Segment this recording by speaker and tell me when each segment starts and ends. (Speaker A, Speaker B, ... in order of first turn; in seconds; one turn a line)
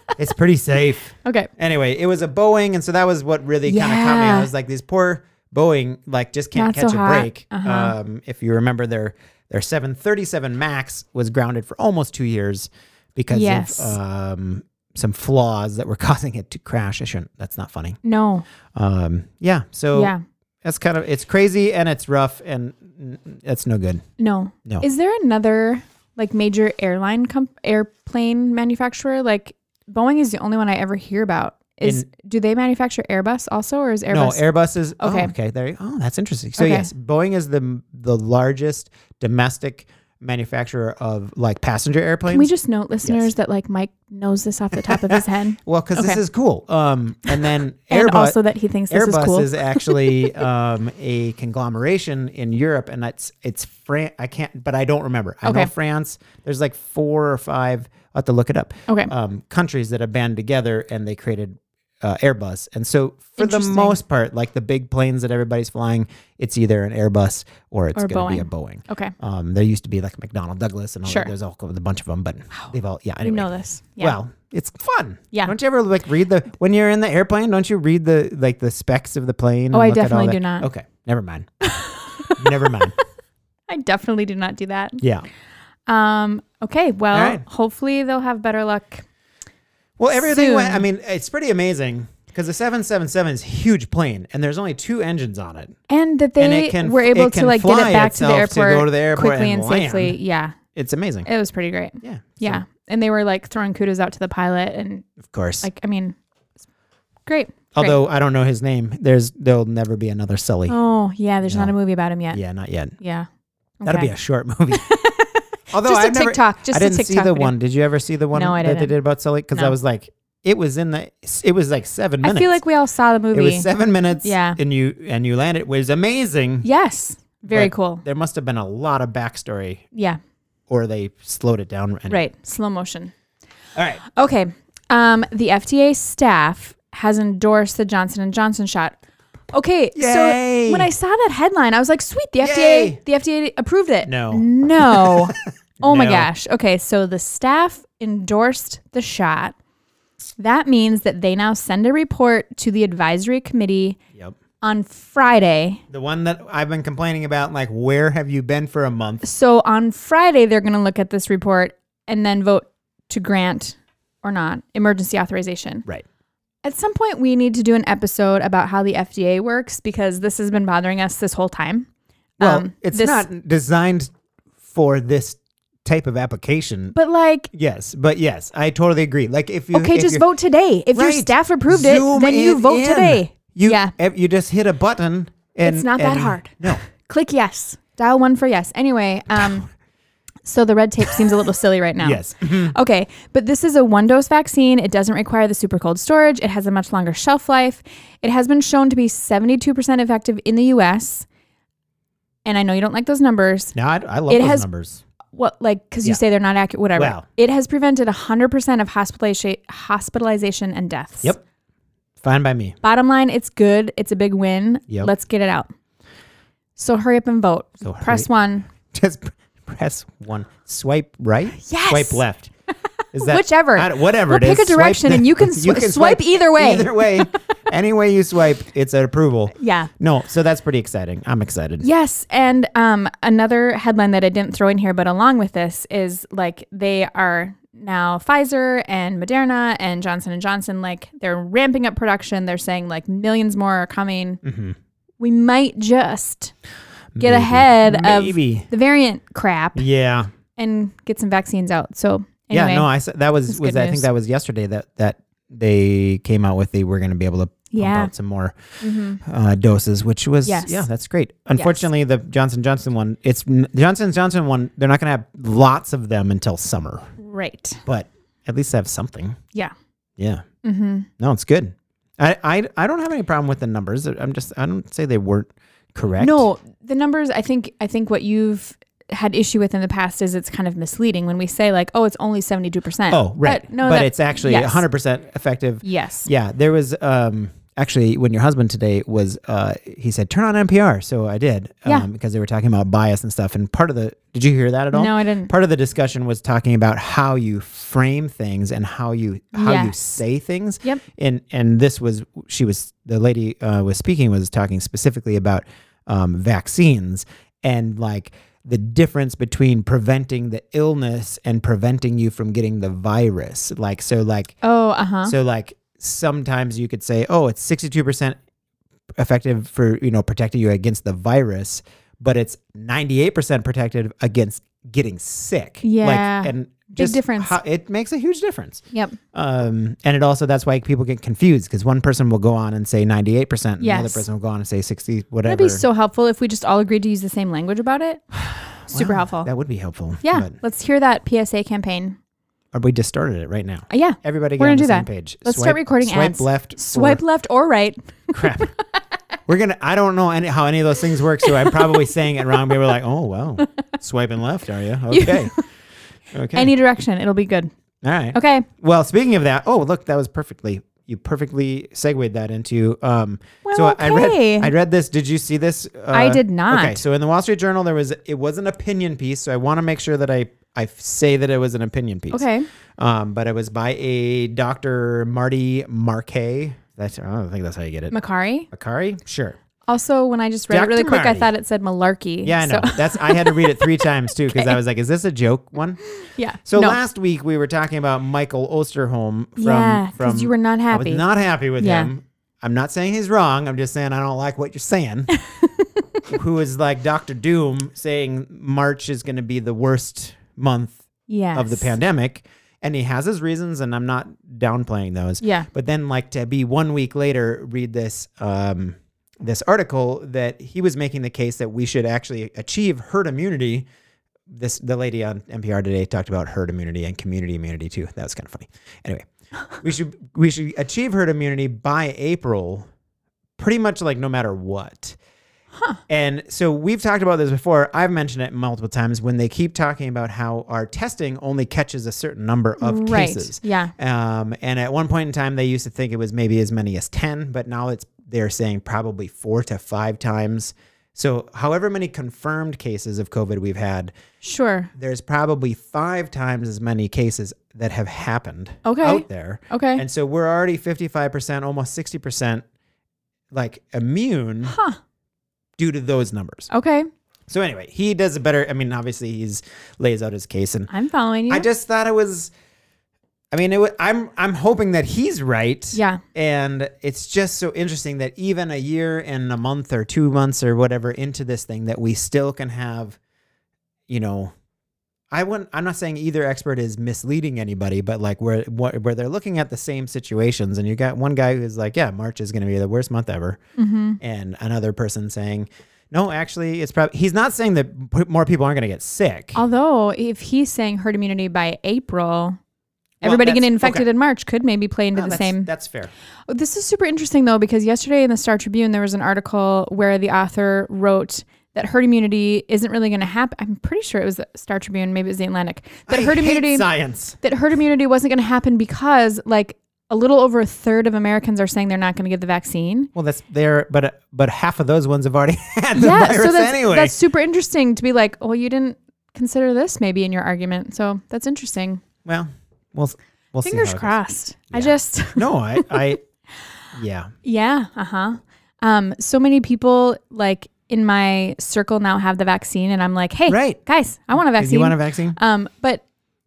Speaker A: 0.2-18.0
Speaker B: 3.6-4.5
Speaker B: 6.5-7.9
Speaker B: 13.3-14.0
Speaker B: 18.0-18.4
Speaker A: 18.7-24.0
Speaker B: 19.9-20.2
Speaker B: 24.2-34.4
Speaker A: 34.1-42.5
Speaker B: 35.0-35.3
Speaker B: 36.6-36.9
Speaker B: 42.3-46.2
Speaker A: 43.0-43.3
Speaker A: 44.8-48.4
Speaker B: 47.2-50.4
Speaker A: 48.9-81.5
Speaker B: 55.4-55.7
Speaker B: 63.4-64.0
Speaker B: 67.9-69.1
Speaker B: 71.0-71.3
Speaker B: 73.2-74.2
Speaker B: 79.7-80.7
Speaker B: 81.6-82.9
Speaker A: 82.3-82.9
Speaker B: 83.7-85.0
Speaker A: 85.0-85.2
Speaker B: 85.9-89.0
Speaker A: 87.1-87.4
Speaker A: 90.0-95.8
Speaker B: 90.1-90.8
Speaker B: 95.9-100.6
Speaker A: 96.4-100.2
Speaker A: 100.7-101.3
Speaker B: 101.2-105.1
Speaker A: 102.0-102.6
Speaker A: 105.2-105.7
Speaker B: 105.6-106.2
Speaker B: 107.2-108.0
Speaker A: 107.7-110.8
Speaker B: 110.7-112.4
Speaker A: 111.4-111.7
Speaker A: 112.3-112.9
Speaker B: 113.0-113.3
Speaker B: 113.8-114.1
Speaker A: 113.8-114.8
Speaker B: 114.7-117.5
Speaker A: 115.7-122.6
Speaker B: 118.3-118.9
Speaker B: 122.2-123.7
Speaker A: 123.3-126.7
Speaker B: 124.2-124.6
Speaker B: 126.6-128.0
Speaker A: 127.5-129.8
Speaker B: 129.9-130.2
Speaker A: 130.7-132.2
Speaker B: 132.1-133.1
Speaker A: 133.7-134.0
Speaker B: 134.0-139.0
Speaker B: 139.5-149.5
Speaker A: 139.9-140.9
Speaker A: 142.4-143.0
Speaker A: 144.1-146.3
Speaker B: 150.4-154.0
Speaker B: 154.6-155.8
Speaker A: 155.9-159.2
Speaker B: 159.2-165.8
Speaker B: 166.6-171.9
Speaker B: 172.4-173.3
Speaker A: 172.4-174.1
Speaker A: 174.7-176.9
Speaker B: 176.9-177.5
Speaker A: 177.5-180.2
Speaker B: 179.7-183.9
Speaker A: 180.9-186.8
Speaker B: 185.6-189.7
Speaker B: 190.4-201.3
Speaker A: 192.0-192.7
Speaker B: 202.4-203.7
Speaker A: 203.7-205.0
Speaker B: 204.3-204.7
Speaker B: 205.3-211.3
Speaker A: 206.9-207.2
Speaker A: 212.2-212.8
Speaker B: 212.8-215.7
Speaker B: 216.8-218.7
Speaker A: 217.8-218.3
Speaker A: 218.8-222.5
Speaker B: 221.6-222.2
Speaker A: 223.1-231.9
Speaker B: 223.2-227.4
Speaker B: 229.6-229.9
Speaker B: 231.8-244.4
Speaker A: 244.4-244.8
Speaker B: 245.2-246.5
Speaker A: 247.1-248.7
Speaker B: 247.2-249.8
Speaker A: 249.8-250.3
Speaker B: 250.6-252.9
Speaker A: 252.5-258.6
Speaker B: 253.5-254.1
Speaker B: 257.7-258.1
Speaker B: 258.8-259.2
Speaker A: 259.2-267.1
Speaker B: 260.4-260.9
Speaker B: 261.6-261.9
Speaker B: 267.2-267.8
Speaker A: 267.9-269.4
Speaker A: 270.2-270.4
Speaker B: 270.6-271.1
Speaker A: 271.2-276.4
Speaker B: 276.2-284.8
Speaker A: 283.1-314.5
Speaker B: 285.8-286.3
Speaker B: 294.9-295.5
Speaker B: 299.5-300.0
Speaker B: 314.6-315.3
Speaker A: 315.2-318.4
Speaker A: 319.2-335.8
Speaker B: 325.8-327.6
Speaker B: 328.9-329.2
Speaker B: 333.8-334.2
Speaker B: 335.4-339.5
Speaker A: 338.8-340.5
Speaker B: 340.2-342.2
Speaker A: 342.7-347.2
Speaker B: 343.9-348.7
Speaker A: 348.3-348.7
Speaker A: 349.5-355.6
Speaker B: 351.5-352.0
Speaker B: 355.1-355.6
Speaker A: 356.3-356.7
Speaker B: 356.5-357.7
Speaker A: 358.0-372.4
Speaker B: 358.3-358.7
Speaker B: 363.6-364.7
Speaker B: 366.1-367.0
Speaker B: 372.3-372.7
Speaker A: 373.0-378.1
Speaker B: 378.1-378.7
Speaker A: 378.7-379.6
Speaker B: 379.9-384.8
Speaker A: 380.7-381.5
Speaker A: 382.4-386.0
Speaker B: 386.1-387.0
Speaker A: 386.6-395.3
Speaker B: 389.6-391.2
Speaker B: 391.8-392.1
Speaker B: 395.6-395.8
Speaker A: 396.3-401.0
Speaker B: 401.3-401.9
Speaker A: 401.5-413.8
Speaker B: 405.4-405.7
Speaker A: 414.5-422.9
Speaker A: 423.6-425.2
Speaker A: 426.1-444.1
Speaker B: 432.8-433.9
Speaker B: 444.4-444.9
Speaker A: 444.9-452.6
Speaker B: 448.8-450.0
Speaker A: 453.5-454.8
Speaker B: 454.6-455.0
Speaker A: 455.8-456.7
Speaker B: 456.7-457.1
Speaker A: 457.5-460.9
Speaker B: 460.9-461.6
Speaker A: 461.5-462.5
Speaker A: 463.5-473.2
Speaker B: 465.9-466.2
Speaker A: 474.1-474.5
Speaker A: 475.3-483.6
Speaker B: 483.8-484.2
Speaker A: 484.2-489.6
Speaker B: 489.5-492.6
Speaker A: 493.2-494.1
Speaker B: 493.2-495.7
Speaker A: 495.1-496.1
Speaker B: 496.5-506.9
Speaker A: 506.1-507.4
Speaker B: 507.4-513.1
Speaker A: 513.1-517.1
Speaker B: 516.0-522.0
Speaker A: 522.2-524.1
Speaker B: 523.6-526.1
Speaker A: 524.7-526.2
Speaker A: 526.9-527.3
Speaker B: 527.4-536.0
Speaker A: 533.5-533.8
Speaker A: 534.3-535.4